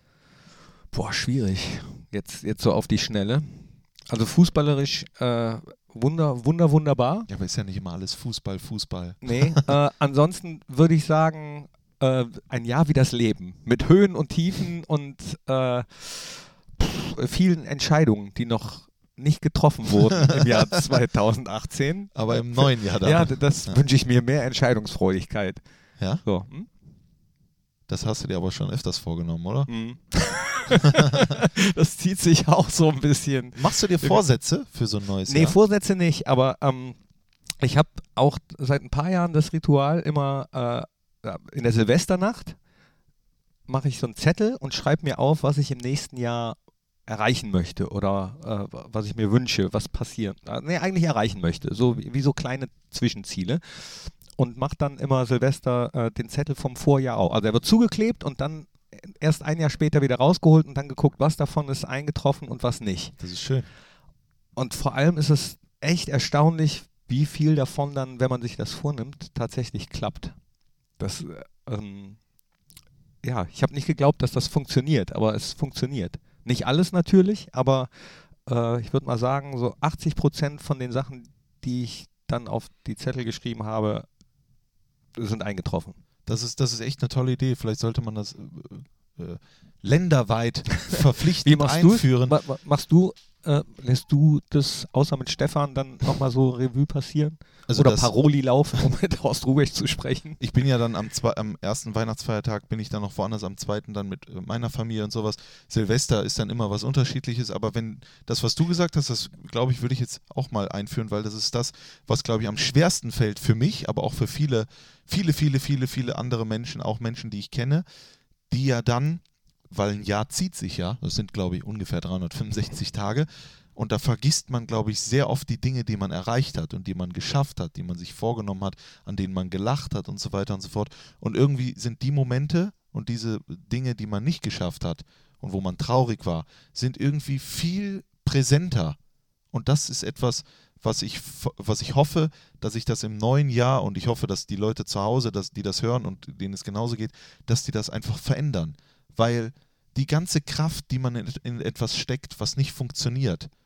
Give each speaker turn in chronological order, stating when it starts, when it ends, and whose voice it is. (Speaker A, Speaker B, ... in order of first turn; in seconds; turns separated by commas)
Speaker A: 0.9-7.3, Speaker B: 7.3-9.8, Speaker A: 9.2-25.6, Speaker B: 20.2-20.6, Speaker B: 22.1-23.8, Speaker B: 26.0-26.2, Speaker A: 26.2-26.7, Speaker B: 27.9-29.7, Speaker A: 29.7-34.2, Speaker B: 33.6-35.6, Speaker A: 35.3-37.0, Speaker A: 37.6-42.6, Speaker A: 43.7-63.1, Speaker B: 63.2-63.7, Speaker A: 64.6-70.3, Speaker A: 71.0-72.2, Speaker A: 73.2-84.1, Speaker A: 85.1-86.0, Speaker B: 86.3-92.4, Speaker A: 90.9-100.4, Speaker B: 97.7-98.1, Speaker B: 100.4-117.9, Speaker B: 118.5-139.0, Speaker B: 139.5-153.5